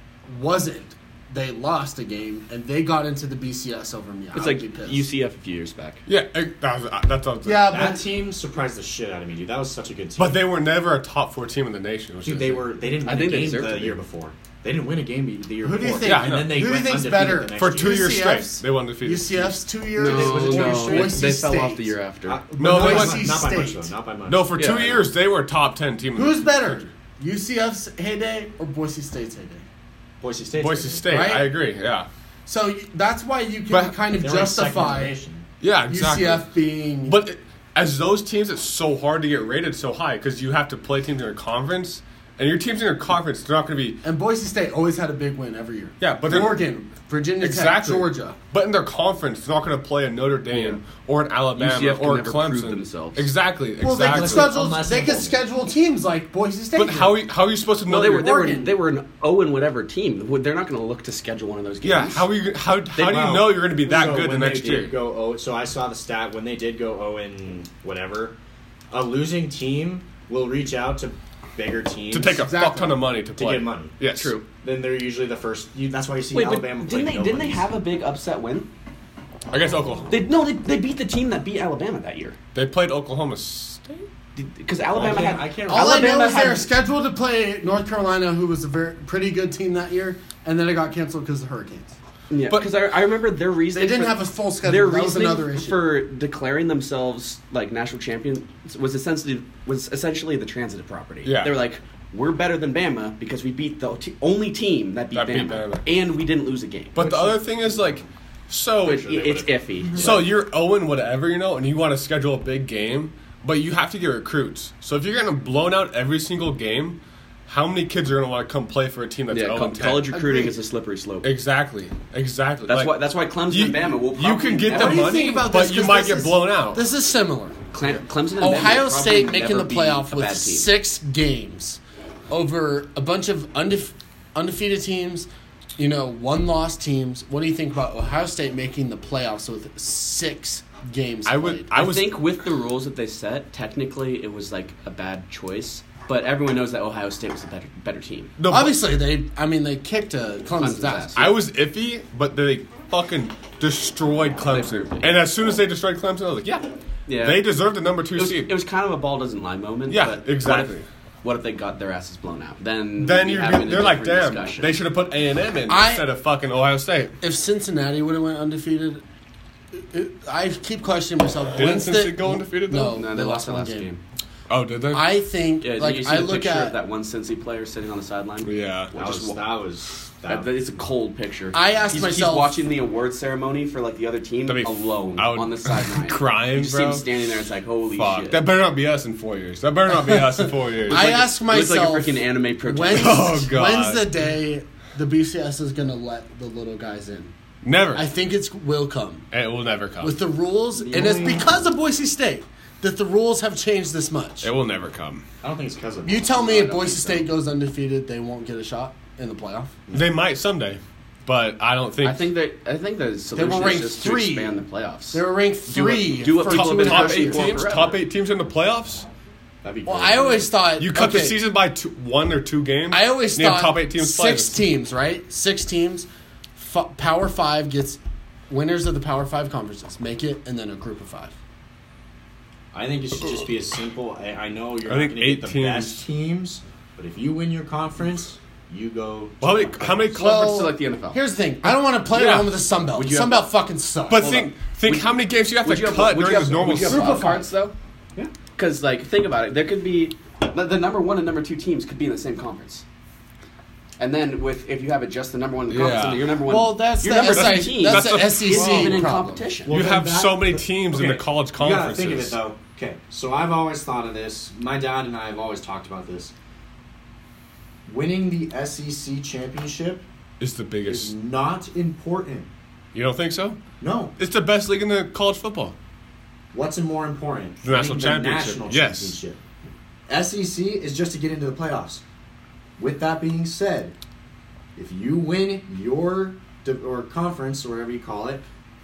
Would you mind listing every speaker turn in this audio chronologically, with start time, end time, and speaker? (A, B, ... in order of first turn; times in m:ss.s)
0:00.3-0:05.0 A
0:04.3-0:06.0 B
0:06.0-0:07.9 C
0:07.4-0:08.0 A
0:07.7-0:10.4 D
0:10.2-0:12.6 C
0:12.2-0:18.1 D
0:12.9-0:14.0 B
0:15.6-0:21.9 A
0:16.0-0:16.6 C
0:17.5-0:19.6 C
0:19.9-0:22.5 B
0:20.0-0:21.2 D
0:22.2-0:24.7 D
0:22.6-0:23.4 C
0:22.6-0:23.9 A
0:24.3-0:26.8 C
0:24.6-0:25.1 B
0:26.1-0:29.6 A
0:30.2-0:31.1 D
0:30.6-0:32.1 C
0:31.1-0:31.5 A
0:32.4-0:35.2 A
0:33.7-0:34.0 C
0:34.1-0:35.5 D
0:35.6-0:36.5 C
0:35.9-0:37.2 A
0:37.0-0:44.0 C
0:44.0-0:48.4 A
0:46.0-0:46.6 C
0:47.4-0:54.5 C
0:50.5-0:50.8 B
0:51.5-0:53.3 B
0:53.8-0:57.2 A
0:54.0-0:55.4 D
0:56.8-0:58.4 C
0:57.8-1:02.3 B
0:58.1-0:58.8 A
1:01.8-1:05.0 C
1:02.9-1:03.3 B
1:03.0-1:08.4 D
1:08.9-1:12.5 D
1:12.1-1:14.4 C
1:12.4-1:13.1 A
1:13.4-1:14.0 D
1:14.0-1:14.4 B
1:14.6-1:17.7 D
1:16.3-1:18.7 B
1:19.5-1:20.2 C
1:20.1-1:22.4 B
1:22.5-1:24.1 C
1:24.3-1:26.7 B
1:24.9-1:26.4 D
1:25.7-1:31.9 A
1:32.3-1:47.2 B
1:33.7-1:35.9 A
1:41.2-1:41.6 C
1:45.1-1:45.9 C
1:46.9-1:49.1 C
1:47.0-1:48.0 D
1:48.8-1:50.4 B
1:48.8-1:50.2 D
1:50.0-2:00.2 C
1:59.3-2:01.3 B
2:00.1-2:00.5 A
2:01.2-2:06.8 C
2:02.6-2:05.4 B
2:04.7-2:07.6 A
2:07.7-2:10.7 B
2:08.4-2:21.7 A
2:21.2-2:22.2 C
2:21.7-2:28.3 B
2:28.4-2:28.8 C
2:28.5-2:31.3 A
2:30.6-2:31.4 B
2:31.2-2:38.5 C
2:34.4-2:35.2 B
2:37.0-2:37.6 B
2:38.1-2:44.8 B
2:39.9-2:40.8 C
2:43.0-2:47.1 C
2:45.7-2:46.1 A
2:47.2-2:49.0 A
2:49.7-2:53.9 A
2:51.6-2:53.0 C
2:52.9-2:54.0 B
2:54.5-2:55.1 C
2:54.9-2:56.8 A
2:55.6-2:59.4 B
2:58.4-2:58.9 C
2:58.9-3:00.5 D
3:00.2-3:08.4 B
3:01.5-3:02.6 A
3:04.4-3:07.1 C
3:07.9-3:11.1 C
3:09.9-3:17.3 A
3:10.8-3:13.4 B
3:12.9-3:14.1 C
3:17.6-3:18.1 C
3:17.9-3:19.3 A
3:19.3-3:20.2 C
3:20.0-3:24.5 A
3:20.8-3:21.5 D
3:21.0-3:21.4 B
3:24.4-3:25.2 C
3:25.4-3:26.9 D
3:26.0-3:29.7 A
3:26.3-3:27.3 B
3:29.9-3:32.3 C
3:32.0-3:38.0 B
3:33.3-3:37.6 A
3:36.4-3:39.1 C
3:39.6-3:40.5 D
3:39.8-3:41.4 A
3:40.8-3:44.7 C
3:42.9-3:48.0 A
3:48.5-3:51.3 A
3:52.7-4:00.1 D
3:54.9-3:56.0 C
3:59.4-4:00.7 C
4:00.1-4:01.2 B
4:00.2-4:04.4 A
4:02.1-4:02.6 C
4:02.9-4:03.5 B
4:04.1-4:07.2 C
4:04.1-4:07.7 B
4:06.8-4:07.5 A
4:08.4-4:12.8 B
4:14.0-4:19.8 B
4:15.7-4:16.3 C
4:16.5-4:19.8 A
4:17.1-4:19.0 C
4:19.7-4:26.3 D
4:19.7-4:22.4 C
4:27.8-4:30.0 D
4:30.4-4:31.1 C
4:30.8-4:32.5 D
4:32.9-4:33.6 C
4:33.8-4:34.1 D
4:34.2-4:35.7 C
4:36.5-4:39.4 D
4:37.6-4:39.2 C
4:40.1-4:42.0 D
4:42.8-4:43.9 D
4:44.8-4:48.5 D